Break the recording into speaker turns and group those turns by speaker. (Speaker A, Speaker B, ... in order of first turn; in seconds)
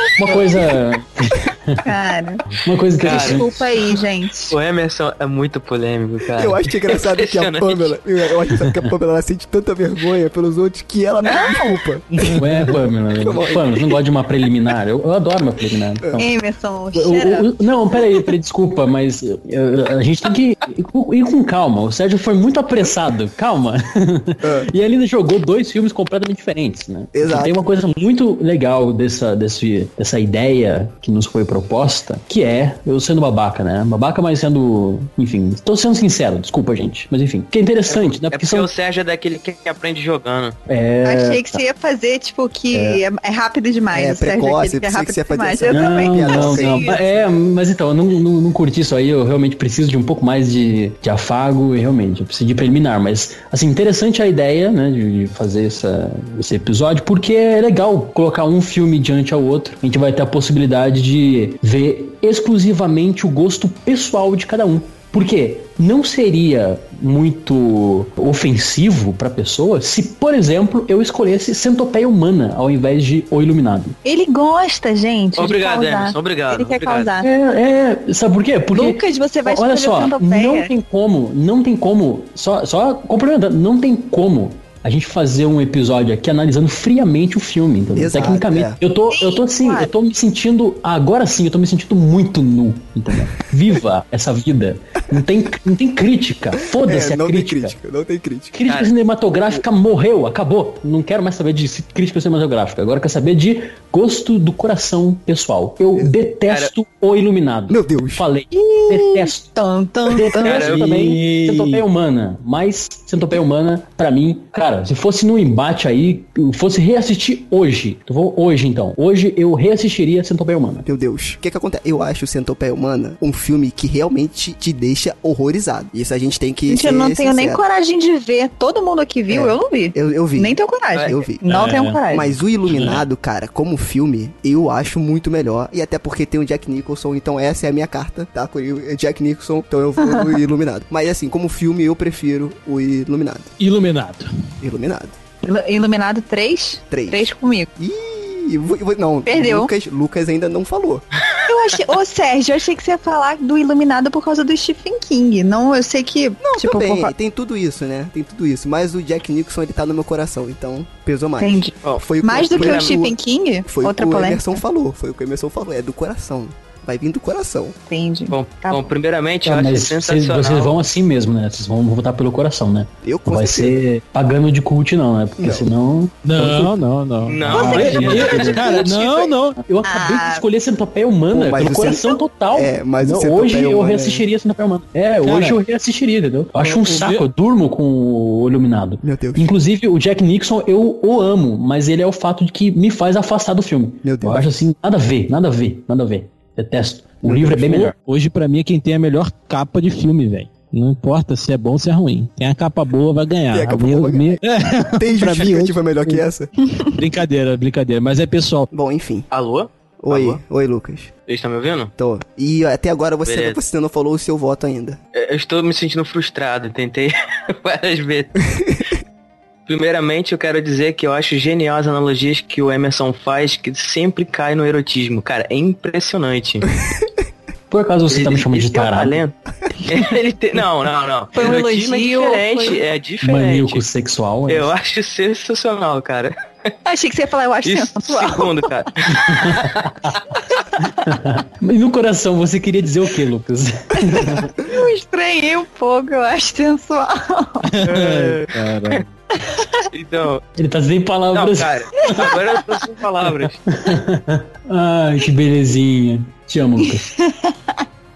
Speaker A: 0.2-1.8, 2.6-3.6, 12.4-16.3, 16.9-38.7, 40.7-41.6, 42.7-43.0, 45.7-74.0, 77.2-97.8, 98.5-109.5, 110.1-120.9, 169.4-176.7, 177.5-178.8, 179.6-197.9, 227.7-229.2, 233.2-234.7, 239.2-239.9, 241.0-244.5, 250.6-252.4, 253.7-257.1
Speaker B: 1.8-2.4, 3.0-4.5, 11.2-11.8, 16.2-17.5, 41.0-47.0, 74.0-77.3, 78.7-80.7, 89.1-89.9, 108.5-110.7, 126.7-132.3, 145.4-147.7, 149.3-149.7, 151.4-157.1, 161.4-164.6, 167.9-168.9, 177.5-178.8, 179.8-180.4, 231.3-232.8, 236.8-238.7, 240.6-240.9, 244.0-247.7, 249.4-249.8, 256.8-257.7
Speaker C: 3.0-3.5, 4.5-8.0, 37.9-40.6, 75.4-77.1, 110.4-110.9, 161.8-163.0, 168.3-170.8, 177.2-178.8, 209.3-210.4, 211.3-211.9, 213.2-213.6, 215.2-218.3, 219.7-226.7, 228.1-229.3, 229.9-233.8, 234.5-236.3, 237.7-239.8, 247.8-249.0, 249.9-250.4, 251.3-253.6
Speaker D: 6.3-13.9, 24.4-24.7, 27.1-27.6, 43.9-47.0, 87.9-88.8, 96.8-98.6, 107.7-108.3, 120.9-127.6, 129.3-131.4, 132.1-143.5, 144.6-145.2, 146.9-151.1, 156.4-167.8, 173.0-173.8, 175.4-175.7, 181.3-184.2, 189.0-189.5, 194.0-194.5, 197.3-197.6, 203.5-204.4, 205.0-206.5, 208.7-209.3, 210.0-211.1, 212.0-215.0, 218.5-218.9
Speaker E: 110.7-111.8, 131.5-132.0, 132.7-133.0, 143.6-144.3, 176.2-179.6, 185.2-185.6, 186.6-187.2, 197.6-206.2, 206.9-208.7, 247.7-249.1